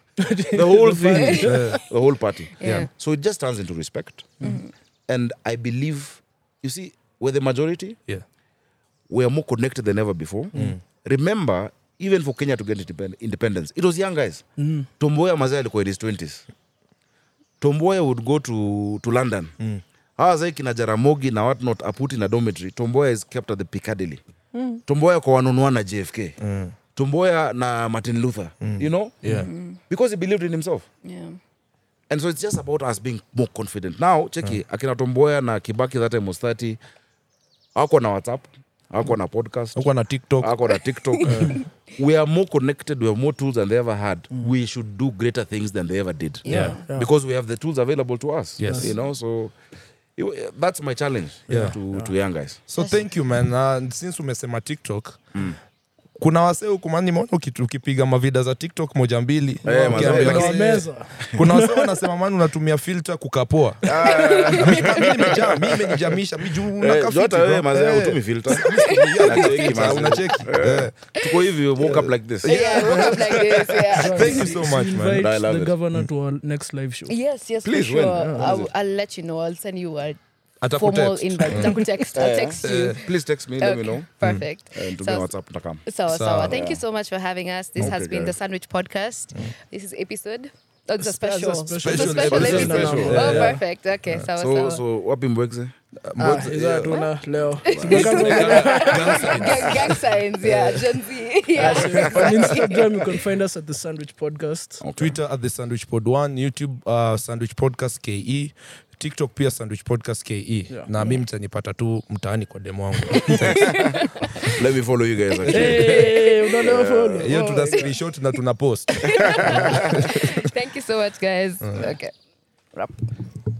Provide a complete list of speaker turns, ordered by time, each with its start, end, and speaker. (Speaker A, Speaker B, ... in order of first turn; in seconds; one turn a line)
Speaker A: 0.2-1.8
Speaker B: 0.4-4.3
Speaker C: 1.4-1.8
Speaker D: 2.6-2.9
Speaker C: 2.6-2.9
Speaker D: 4.4-4.7
Speaker B: 5.1-8.0
Speaker B: 9.1-14.4
Speaker A: 10.5-10.8
Speaker C: 10.5-10.8
Speaker A: 14.6-14.9
Speaker B: 15.0-16.5
Speaker B: 17.6-19.5
Speaker B: 20.2-24.2
Speaker A: 24.5-24.8
Speaker B: 24.8-26.4
Speaker C: 26.4-26.7
Speaker B: 26.9-29.2
Speaker C: 28.6-29.5
Speaker D: 29.3-29.8
Speaker B: 29.8-30.9
Speaker D: 31.0-31.4
Speaker B: 32.1-36.8
Speaker B: 37.7-49.5
Speaker C: 39.7-40.5
Speaker D: 41.2-41.6
Speaker C: 41.2-41.5
Speaker A: 41.3-41.5
Speaker D: 46.4-46.8
Speaker C: 46.5-46.8
Speaker C: 48.6-48.9
Speaker A: 48.6-48.9
Speaker D: 48.8-49.1
Speaker B: 50.1-52.6
Speaker A: 51.5-52.1
Speaker C: 51.5-51.8
Speaker C: 52.7-55.2
Speaker C: 56.2-63.9
Speaker B: 59.6-60.8
Speaker A: 59.7-61.9
Speaker B: 63.8-66.0
Speaker D: 64.0-65.5
Speaker C: 64.5-70.9
Speaker B: 66.8-73.2
Speaker D: 68.6-69.5
Speaker C: 71.8-75.2
Speaker D: 72.4-74.5
Speaker A: 74.0-77.1
Speaker B: 75.2-75.7
Speaker D: 77.1-80.2
Speaker B: 77.6-78.7
Speaker A: 78.1-78.5
Speaker C: 80.6-81.8
Speaker D: 80.7-85.3
Speaker B: 82.1-84.0
Speaker C: 82.6-83.0
Speaker B: 84.7-85.8
Speaker D: 85.8-94.8
Speaker C: 86.1-86.6
Speaker B: 86.4-86.8
Speaker B: 87.8-88.3
Speaker A: 91.0-93.6
Speaker C: 91.8-93.6
Speaker B: 92.2-93.4
Speaker B: 94.3-95.7
Speaker C: 96.0-96.6
Speaker A: 96.2-99.8
Speaker B: 96.3-97.0
Speaker D: 97.6-103.0
Speaker B: 97.7-99.7
Speaker C: 97.9-100.8
Speaker A: 101.5-104.8
Speaker B: 102.0-102.3
Speaker B: 104.8-105.2
Speaker C: 105.0-114.0
Speaker A: 110.7-111.2
Speaker D: 113.2-114.5
Speaker B: 114.4-117.3
Speaker C: 115.4-115.7
Speaker A: 115.5-117.8
Speaker D: 115.6-116.5
Speaker C: 117.2-120.4
Speaker D: 117.3-117.9
Speaker D: 118.9-122.1
Speaker B: 119.1-120.0
Speaker C: 121.6-121.9
Speaker D: 122.7-123.0